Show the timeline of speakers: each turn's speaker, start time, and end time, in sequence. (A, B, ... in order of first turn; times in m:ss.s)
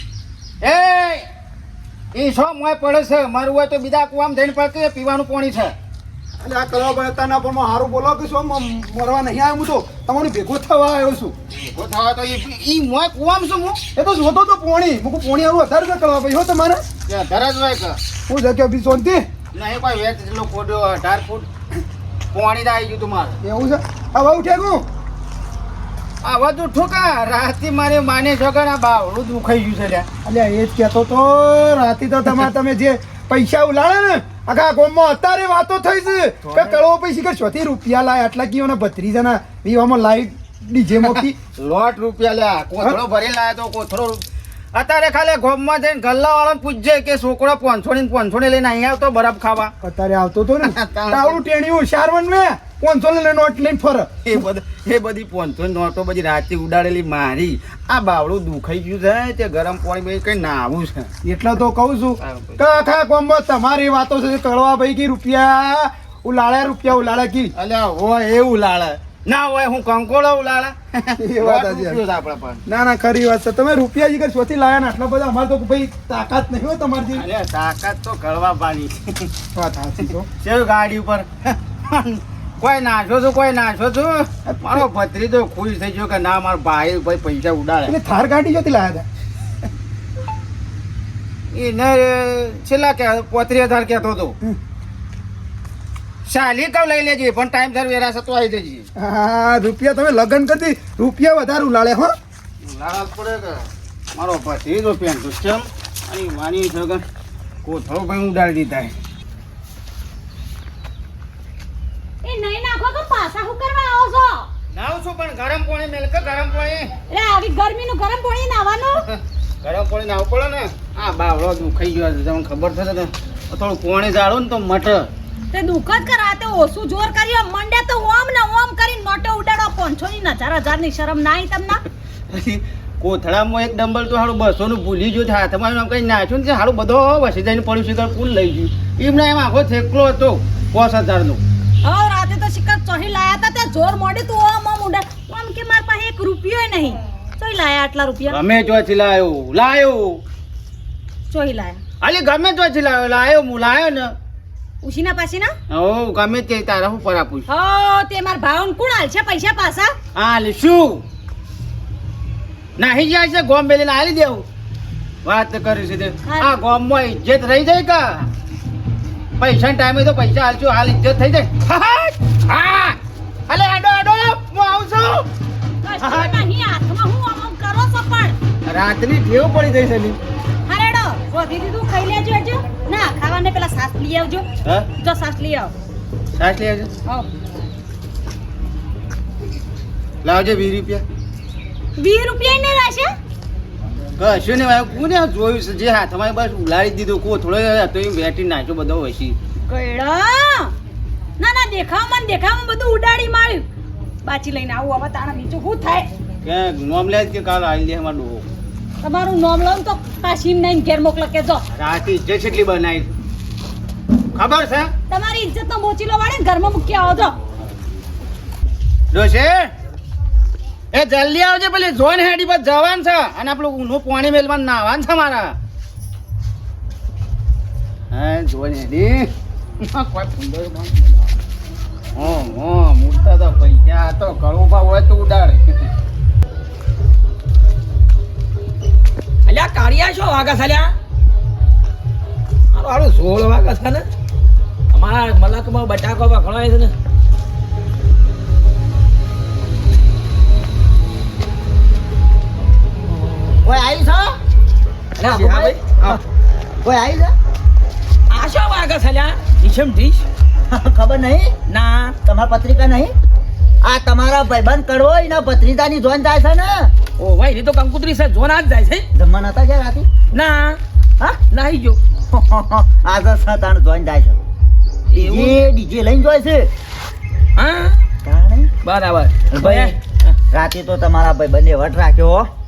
0:00.6-0:01.2 A
0:02.2-0:05.7 A
0:06.4-0:11.4 B
0:11.5-0:13.8 A
0:14.0-0:16.8 B
0:17.1-0:18.0 A
0:18.3-0:19.3 B
0:19.5-0:21.5 A
0:22.3-0:23.4 A
0:23.4-0:24.8 B
0:26.2-0:30.1 A
0:30.2-0:41.4 B
0:36.4-0:36.8 A
0:41.0-0:44.2 A
0:44.7-0:49.7 A
0:49.8-0:54.2 B
0:50.6-0:51.4 A
0:54.3-1:01.1 A
1:01.2-1:07.5 B
1:02.2-1:02.6 A
1:07.6-1:12.6 A
1:11.2-1:12.0 B
1:12.7-1:17.2 B
1:17.2-1:19.0 A
1:19.6-1:20.3 B
1:20.4-1:28.0 A
1:24.5-1:24.9 B
1:27.9-1:29.1 B
1:31.5-1:34.3 A
1:36.3-1:38.9 A
1:39.0-1:42.1 B
1:42.7-1:43.6 A
1:44.2-1:47.0 A
1:47.6-1:48.9 A
1:52.2-1:54.5 C
1:54.7-1:56.9 A
1:57.1-1:59.0 C
1:59.6-2:05.0 A
2:05.5-2:11.8 C
2:12.3-2:21.4 A
2:21.8-2:28.4 C
2:28.3-2:30.2 A
2:31.3-2:31.8 C
2:32.0-2:34.1 A
2:34.8-2:35.5 C
2:35.7-2:37.5 A
2:37.5-2:39.9 C
2:40.2-2:41.0 A
2:42.8-2:44.4 A
2:45.2-2:48.1 A
2:46.2-2:46.6 C
2:49.4-2:52.8 A
2:53.5-2:55.2 A
2:55.8-2:58.4 C
2:56.0-2:56.4 A
2:58.7-3:00.2 A
3:00.7-3:04.5 C
3:05.0-3:05.8 C
3:06.4-3:06.9 A
3:10.2-3:11.0 A
3:12.0-3:13.1 C
3:14.2-3:19.4 A
3:19.6-3:20.7 C
3:21.4-3:23.7 C
3:24.2-3:26.1 C
3:26.4-3:28.5 A
3:29.0-3:31.6 C
3:31.7-3:33.1 A
3:34.4-3:34.9 A
3:35.1-3:37.4 C
3:39.1-3:39.7 A
3:40.9-3:45.5 A
3:48.1-3:49.3 A
3:49.8-3:51.3 A
3:52.2-3:55.7 A
3:59.5-4:00.9 D
4:02.7-4:04.1 D
4:04.9-4:07.0 D
4:13.5-4:14.4 E
4:15.2-4:16.2 D
4:15.2-4:16.2 E
4:16.8-4:17.3 E
4:18.3-4:20.2 D
4:20.7-4:21.5 E
4:21.7-4:22.2 D
4:22.2-4:23.1 E
4:23.8-4:26.9 E
4:27.2-4:29.0 D
4:29.1-4:30.1 E
4:30.3-4:30.8 D
4:31.5-4:32.0 D
4:32.3-4:34.4 E
4:35.1-4:35.6 D
4:35.1-4:36.7 E
4:37.6-4:38.0 D
4:38.2-4:38.7 E
4:38.8-4:40.3 D
4:39.5-4:40.0 E
4:40.5-4:42.5 E